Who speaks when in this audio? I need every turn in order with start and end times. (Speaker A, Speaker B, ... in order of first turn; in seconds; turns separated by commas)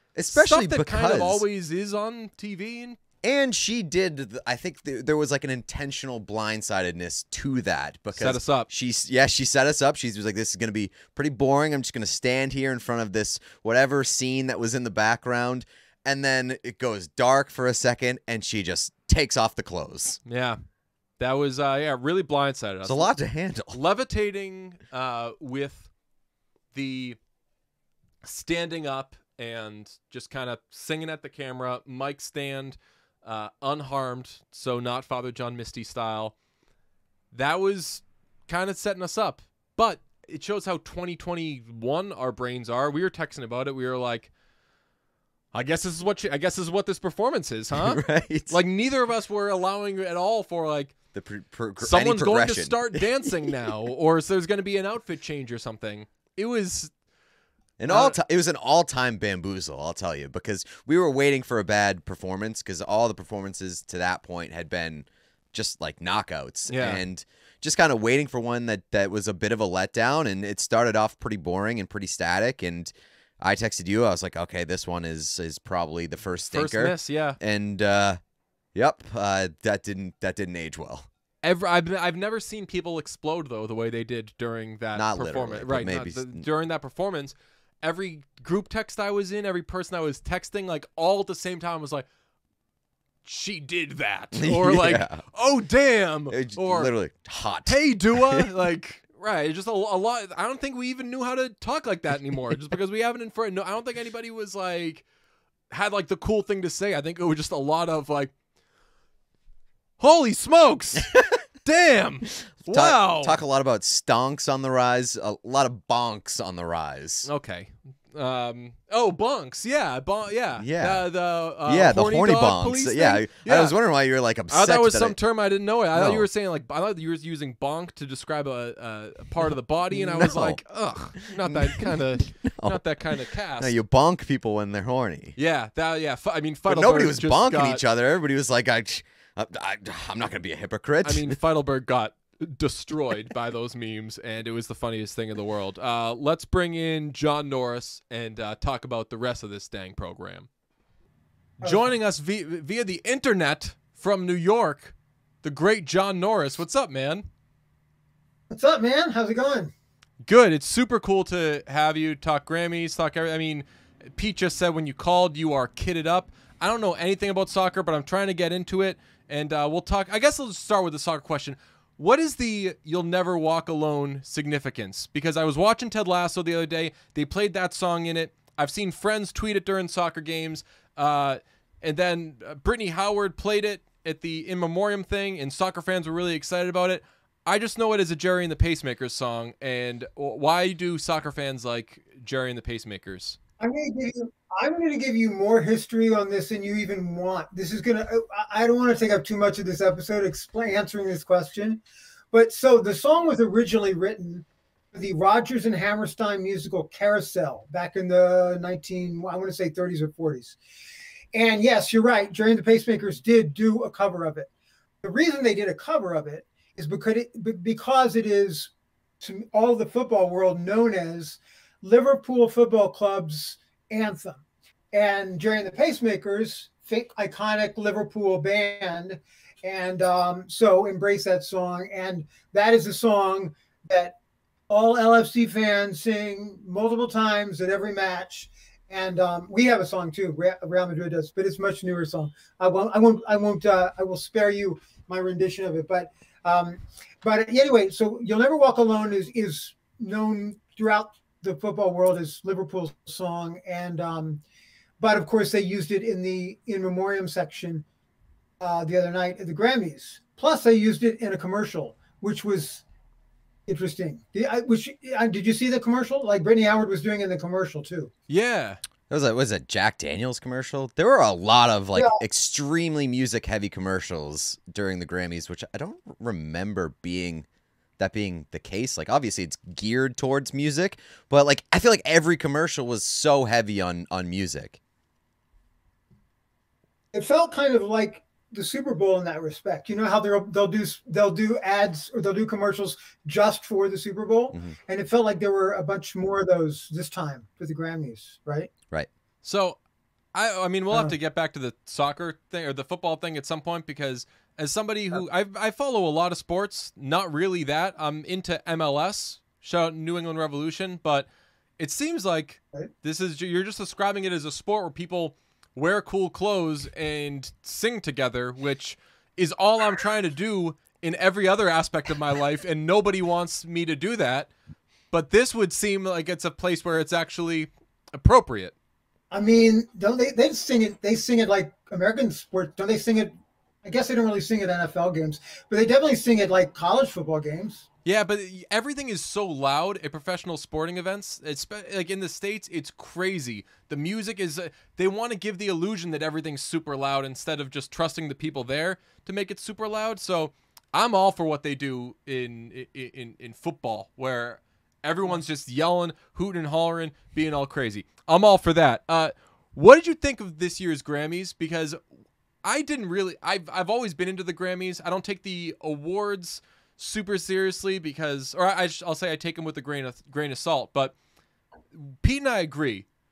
Speaker A: 0.1-1.4, Speaker B: 0.3-3.0, Speaker A: 3.2-20.2, Speaker B: 8.1-8.7, Speaker B: 20.2-20.6, Speaker B: 21.2-23.1, Speaker A: 22.8-23.8, Speaker B: 23.7-25.9, Speaker B: 26.7-27.2, Speaker B: 28.2-36.3, Speaker B: 37.3-44.3, Speaker B: 45.5-51.0, Speaker A: 47.7-48.6, Speaker A: 51.1-53.7, Speaker B: 51.8-56.9, Speaker A: 57.8-78.2, Speaker B: 57.9-58.2, Speaker B: 66.7-67.0, Speaker B: 76.5-77.4, Speaker A: 78.8-81.1, Speaker B: 81.4-92.1, Speaker A: 84.9-86.4, Speaker B: 93.2-96.9, Speaker A: 94.3-95.2, Speaker A: 96.3-98.5, Speaker B: 97.7-105.0, Speaker B: 105.7-108.3, Speaker B: 110.0-113.4, Speaker A: 112.6-117.3, Speaker B: 117.3-123.8, Speaker A: 120.6-121.1, Speaker A: 121.6-125.2, Speaker B: 124.5-133.8, Speaker A: 125.9-126.3, Speaker A: 129.9-130.6, Speaker A: 131.2-132.8, Speaker A: 133.6-135.3, Speaker B: 135.4-137.8, Speaker A: 136.7-141.4, Speaker B: 141.0-150.5, Speaker C: 151.6-151.9, Speaker B: 151.6-157.3, Speaker C: 158.5-159.7, Speaker B: 160.3-193.4, Speaker C: 193.6-210.6, Speaker C: 211.3-214.5, Speaker C: 215.0-234.2, Speaker C: 234.7-254.4, Speaker C: 255.0-257.8, Speaker C: 258.6-262.8, Speaker C: 263.7-268.1, Speaker B: 268.3-268.8, Speaker A: 269.1-277.5, Speaker C: 272.0-272.2, Speaker A: 278.0-284.8, Speaker C: 287.1-298.7, Speaker B: 299.4-299.8, Speaker B: 300.4-311.3, Speaker B: 311.8-324.5, Speaker B: 325.1-328.7, Speaker C: 329.3-337.9, Speaker B: 338.1-362.0, Speaker B: 362.6-371.1, Speaker B: 371.9-373.1